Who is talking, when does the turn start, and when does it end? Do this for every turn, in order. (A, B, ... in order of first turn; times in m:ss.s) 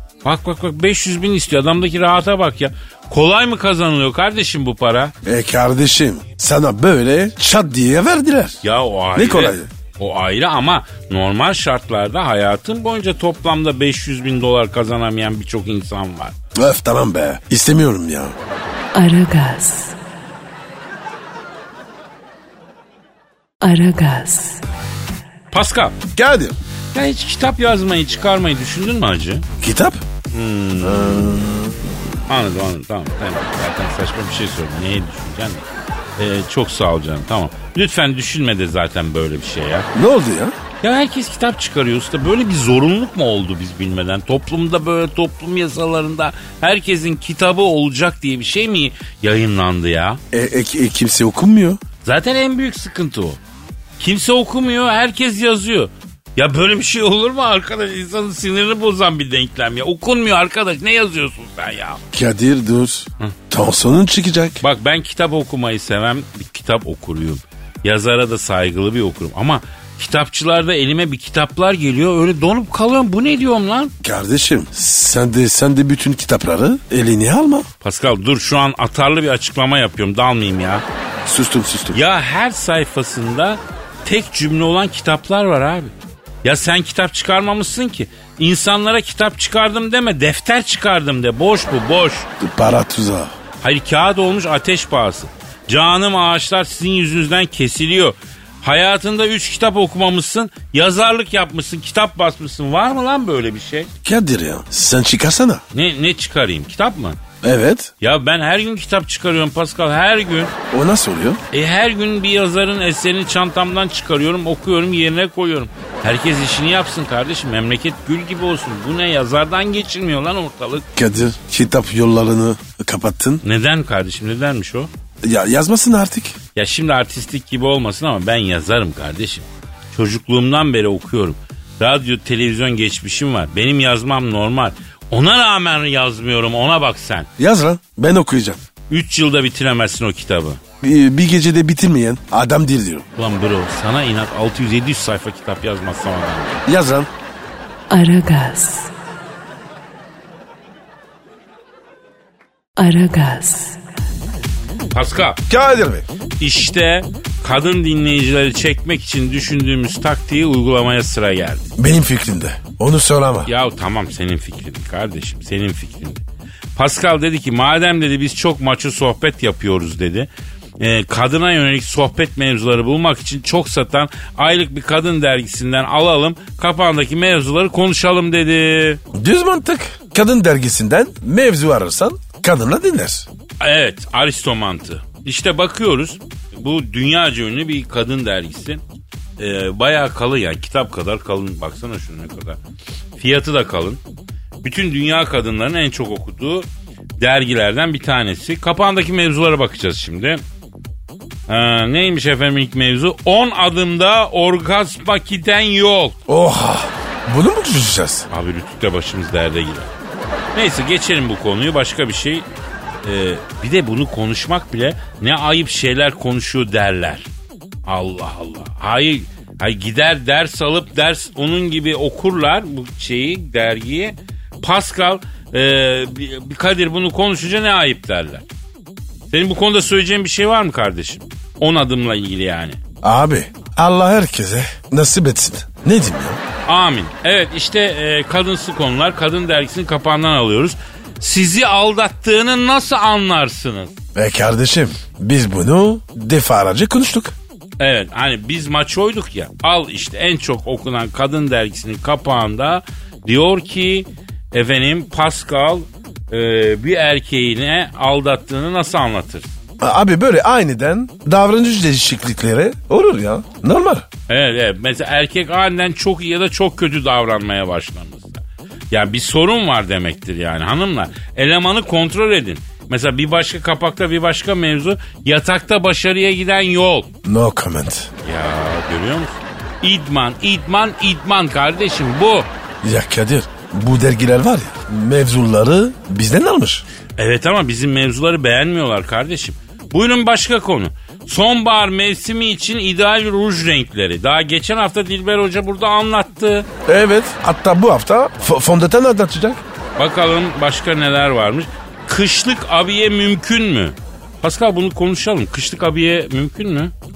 0:00.2-0:05.2 A
0:05.2-0:08.6 B
0:08.6-0:16.4 A
0:09.2-0:09.7 B
0:16.6-0:18.4 B
0:18.9-0:20.0 C
0:23.6-0:24.6 C
0:25.5-0:26.0 A
0:26.2-0:26.6 B
0:26.9-0:29.5 A
0:29.6-0:30.0 B
0:30.3-0:31.5 A
0:30.8-0:31.8 B
0:32.3-0:35.7 A
0:36.2-0:39.9 A
0:39.9-0:40.6 B
0:40.8-0:50.2 A
0:50.3-0:51.8 B
0:52.0-0:53.4 A
0:54.0-1:02.0 A
1:02.1-1:04.6 B
1:04.6-1:13.9 A
1:14.0-1:17.7 B
1:17.8-1:20.8 A
1:21.2-1:22.0 B
1:21.9-1:32.3 A
1:32.4-1:33.3 B
1:33.6-1:43.9 A
1:44.0-1:45.6 B
1:45.7-1:47.2 A
1:47.4-1:47.9 B
1:48.0-1:50.5 A
1:50.7-1:51.4 B
1:51.5-2:00.9 A
2:01.0-2:03.4 B
2:03.4-2:04.9 A
2:05.2-2:06.4 B
2:06.6-2:17.3 A
2:17.4-2:18.6 B
2:18.9-2:20.6 A
2:20.8-2:23.1 B
2:23.2-2:26.6 A
2:26.7-2:27.1 B
2:27.9-2:28.9 C
2:32.8-2:33.8 C
2:34.9-2:35.4 A
2:35.5-2:36.1 B
2:36.4-2:41.7 A
2:41.8-2:43.5 B
2:43.5-2:46.2 A
2:46.8-2:50.3 A
2:50.8-2:59.0 A
2:59.1-3:03.3 B
3:03.6-3:08.8 A
3:09.4-3:12.6 A
3:13.2-3:14.0 A
3:14.6-3:16.7 A
3:17.2-3:20.4 A
3:21.5-3:26.2 A
3:26.3-3:28.3 B
3:28.3-3:29.9 A
3:30.6-3:32.5 A
3:33.0-3:37.3 A
3:37.9-3:48.4 A
3:49.3-3:52.8 A
3:53.0-3:56.4 B
3:56.7-4:03.9 A
4:04.2-4:07.4 B
4:07.8-4:19.5 A
4:19.8-4:24.1 B
4:24.3-4:37.1 A
4:37.2-4:38.1 B
4:38.2-4:42.5 A
4:42.8-4:46.9 B
4:47.2-4:56.7 A
4:56.9-4:59.6 B
5:00.0-5:06.9 A